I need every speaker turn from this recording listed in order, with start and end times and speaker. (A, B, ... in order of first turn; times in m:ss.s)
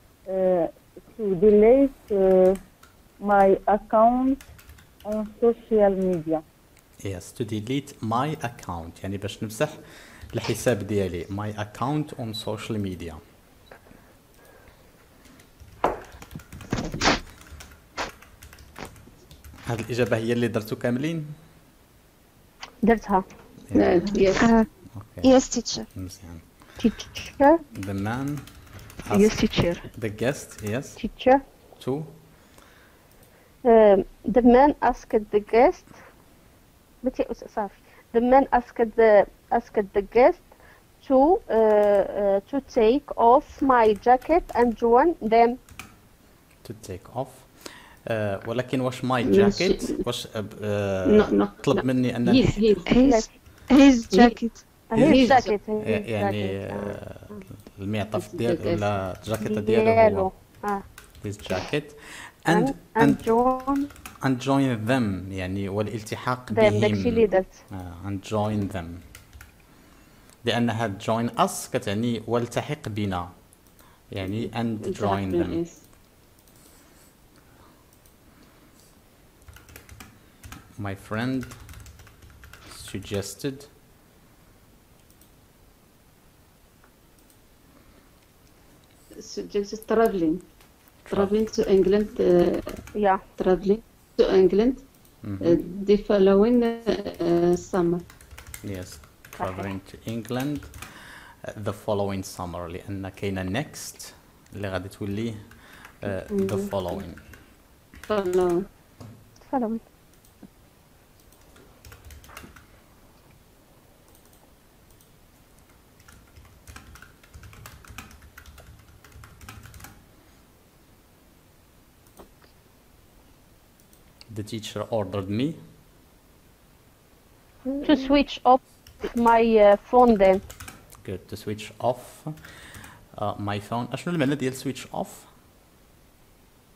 0:00.3-0:02.6 A
0:03.2-0:04.4 A
0:05.0-0:06.4 A
0:07.0-0:13.2 B
0:19.7-0:21.3 B
0:22.8-0:23.2 C
0:23.7-0:24.0 B
0:23.7-0:24.5 D
0:24.4-0:24.6 E
0:24.9-0:25.3 B
0:25.2-0:25.8 E
0:25.9-0:26.4 B
0:26.8-0:27.6 C
0:27.7-0:28.5 B
0:29.0-0:31.0 B
0:29.1-0:29.8 E
0:31.0-0:31.4 C
0:31.8-0:32.1 B
0:33.6-0:35.9 C
0:37.0-0:40.4 C
0:41.0-0:45.6 C
0:46.6-0:52.7 B
0:49.2-0:50.0 D
0:51.0-0:52.9 D
0:52.8-0:54.6 E
0:53.0-0:53.3 C
0:54.1-0:54.4 D
0:54.9-0:57.0 C
0:54.9-1:00.3 B
0:55.0-0:55.6 D
0:58.2-0:59.0 D
0:59.4-1:00.8 C
1:01.2-1:03.2 B
1:02.5-1:03.9 C
1:04.2-1:09.0 B
1:06.5-1:07.6 C
1:10.4-1:13.5 B
1:14.1-1:15.6 B
1:14.2-1:15.8 D
1:20.8-1:21.6 B
1:22.7-1:23.7 B
1:29.2-1:30.5 D
1:31.1-1:32.8 D
1:32.9-1:33.2 C
1:33.4-1:34.8 D
1:35.2-1:35.6 B
1:35.4-1:38.0 D
1:38.6-1:45.5 B
1:39.4-1:39.7 C
1:46.0-1:47.2 B
1:46.3-1:47.0 D
1:48.1-1:48.6 D
1:49.5-1:49.8 C
2:04.3-2:05.6 B
2:07.8-2:10.4 C
2:11.0-2:12.3 B
2:13.1-2:15.3 B